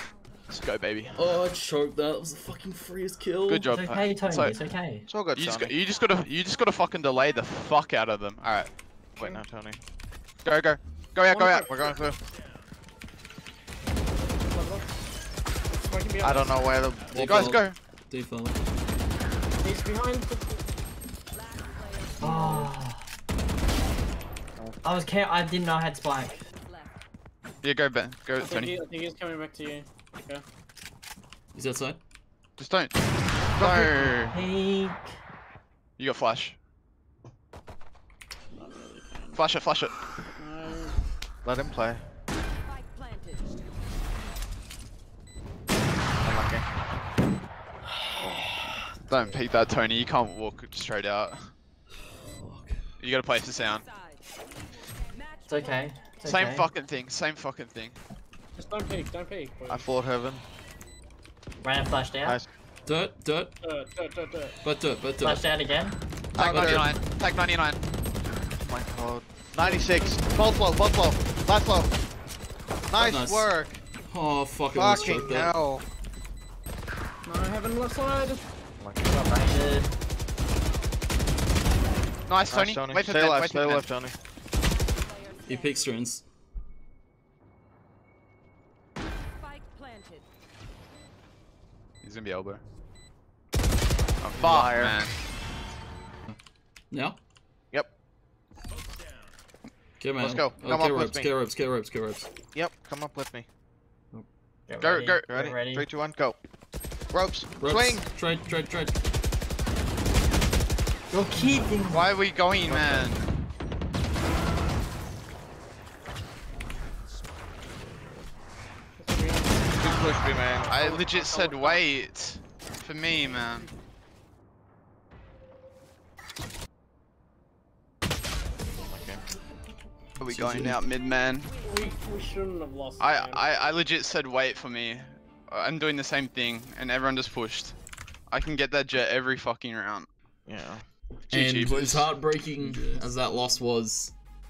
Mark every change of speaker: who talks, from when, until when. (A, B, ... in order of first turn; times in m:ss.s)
0:00.5-0:01.2 A
0:01.2-0:03.7 B
0:03.5-0:04.6 A
0:03.5-0:05.1 C
0:05.1-0:05.8 D
0:05.3-0:08.7 A
0:09.2-0:09.8 D
0:10.4-0:11.7 A
0:11.3-0:11.7 E
0:11.6-0:12.2 D
0:14.2-0:14.9 E
0:15.7-0:16.5 E
0:16.2-0:17.5 D
0:17.1-0:18.6 B
0:17.2-0:17.8 A
0:19.6-0:20.6 E
0:21.3-0:22.6 F
0:22.2-0:23.0 C
0:24.8-0:26.4 C
0:26.6-0:26.9 F
0:27.6-0:28.7 A
0:28.4-0:30.4 E
0:31.5-0:32.0 B
0:32.6-0:33.0 A
0:33.3-0:33.6 E
0:33.6-0:34.4 A
0:33.6-0:35.1 C
0:36.0-0:36.6 A
0:38.6-0:39.4 E
0:39.4-0:39.9 A
0:40.4-0:41.0 E
0:41.4-0:42.0 D
0:42.7-0:43.6 F
0:46.2-0:46.7 D
0:49.0-0:51.5 A
0:52.2-0:52.8 B
0:53.0-0:53.9 A
0:53.9-0:54.2 F
0:55.1-0:55.7 F
0:55.5-0:56.7 C
0:56.2-0:58.0 A
0:58.6-0:59.9 E
0:59.7-1:00.4 D
1:01.6-1:02.4 C
1:02.8-1:03.6 B
1:03.6-1:04.6 E
1:04.6-1:05.5 B
1:05.2-1:06.0 C
1:06.4-1:07.8 A
1:06.4-1:06.9 D
1:08.6-1:11.9 D
1:09.6-1:10.3 E
1:12.9-1:13.8 D
1:13.0-1:13.5 B
1:14.1-1:15.6 B
1:14.7-1:15.8 D
1:17.2-1:18.4 E
1:19.0-1:19.9 C
1:22.3-1:23.9 A
1:22.5-1:24.2 D
1:25.0-1:25.9 F
1:25.5-1:26.2 B
1:29.4-1:30.3 F
1:32.0-1:32.6 A
1:34.2-1:35.1 A
1:34.4-1:35.0 D
1:36.9-1:37.2 B
1:40.0-1:42.3 B
1:40.2-1:41.3 D
1:42.5-1:43.5 D
1:44.7-1:45.8 C
1:44.8-1:45.3 A
1:45.3-1:46.4 D
1:47.1-1:48.1 D
1:47.6-1:49.0 B
1:51.1-1:52.1 C
1:51.9-1:53.3 A
1:52.7-1:53.1 D
1:59.0-2:01.8 E
1:59.8-2:00.7 D
2:00.7-2:03.7 A
2:08.8-2:09.2 D
2:10.2-2:11.5 A
2:10.2-2:10.8 B
2:11.6-2:13.5 E
2:13.0-2:17.8 A
2:18.3-2:20.1 A
2:20.5-2:20.8 D
2:21.3-2:22.1 A
2:21.3-2:24.1 B